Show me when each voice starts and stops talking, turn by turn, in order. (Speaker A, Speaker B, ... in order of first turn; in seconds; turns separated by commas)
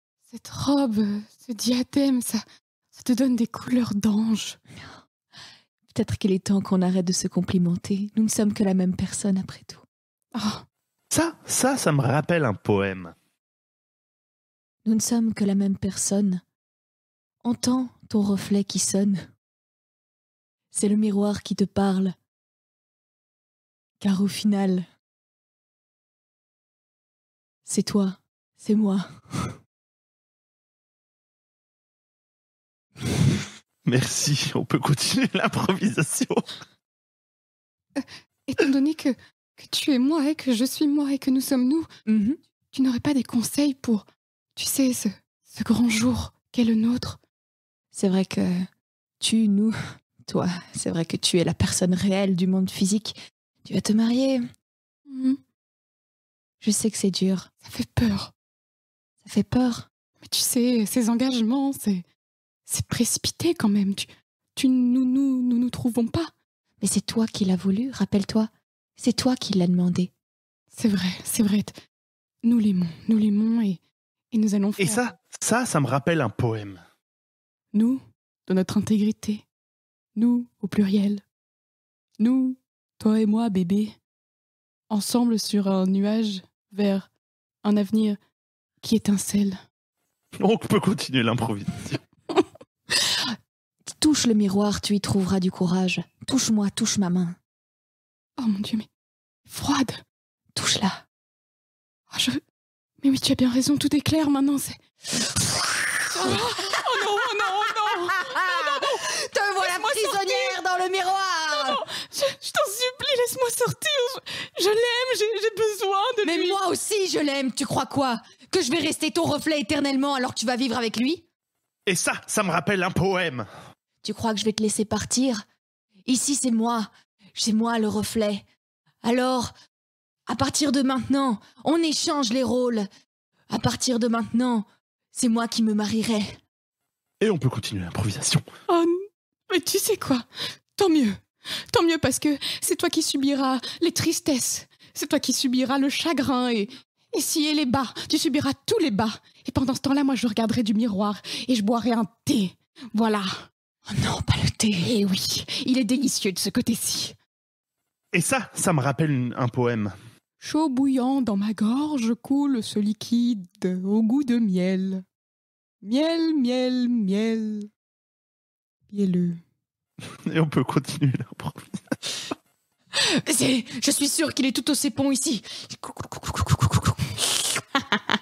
Speaker A: 0.3-4.6, Speaker B: 5.9-9.8, Speaker A: 10.3-10.6, Speaker C: 11.1-13.1, Speaker B: 14.8-16.4, Speaker B: 17.4-19.3, Speaker B: 20.7-22.1, Speaker B: 24.0-24.9, Speaker B: 27.6-29.1, Speaker C: 33.8-36.5, Speaker A: 38.0-41.9, Speaker B: 42.0-42.4, Speaker A: 42.7-44.0, Speaker A: 44.5-47.2, Speaker B: 47.9-48.7, Speaker B: 49.2-54.4, Speaker A: 55.1-55.4, Speaker B: 56.6-57.5, Speaker A: 57.6-58.3, Speaker B: 59.2-59.9, Speaker A: 60.2-62.0, Speaker A: 62.7-66.3, Speaker B: 66.8-70.1, Speaker A: 70.7-71.7, Speaker A: 72.4-73.8, Speaker A: 74.3-75.0, Speaker C: 74.8-76.8, Speaker A: 77.7-79.4, Speaker A: 80.2-81.2, Speaker A: 82.2-84.0, Speaker A: 84.9-87.1, Speaker A: 87.6-88.2, Speaker A: 88.8-89.6, Speaker C: 90.4-92.0, Speaker B: 94.0-97.4, Speaker A: 98.4-98.9, Speaker A: 99.5-100.0, Speaker B: 100.5-101.0, Speaker A: 102.1-102.4, Speaker A: 103.0-104.8, Speaker A: 106.1-109.0, Speaker B: 106.1-106.4, Speaker B: 108.1-111.8, Speaker A: 109.6-110.6, Speaker A: 111.5-116.6, Speaker B: 116.2-121.2, Speaker C: 121.9-123.5, Speaker B: 124.0-125.4, Speaker B: 126.0-128.4, Speaker B: 129.0-129.5, Speaker B: 130.3-132.9, Speaker B: 133.5-136.4, Speaker C: 137.2-138.4, Speaker A: 138.7-153.5, Speaker B: 153.9-154.9, Speaker A: 154.8-157.2, Speaker C: 158.1-159.9, Speaker A: 160.4-165.0, Speaker A: 165.8-167.7, Speaker A: 168.9-169.4, Speaker C: 170.2-171.8, Speaker B: 173.0-177.0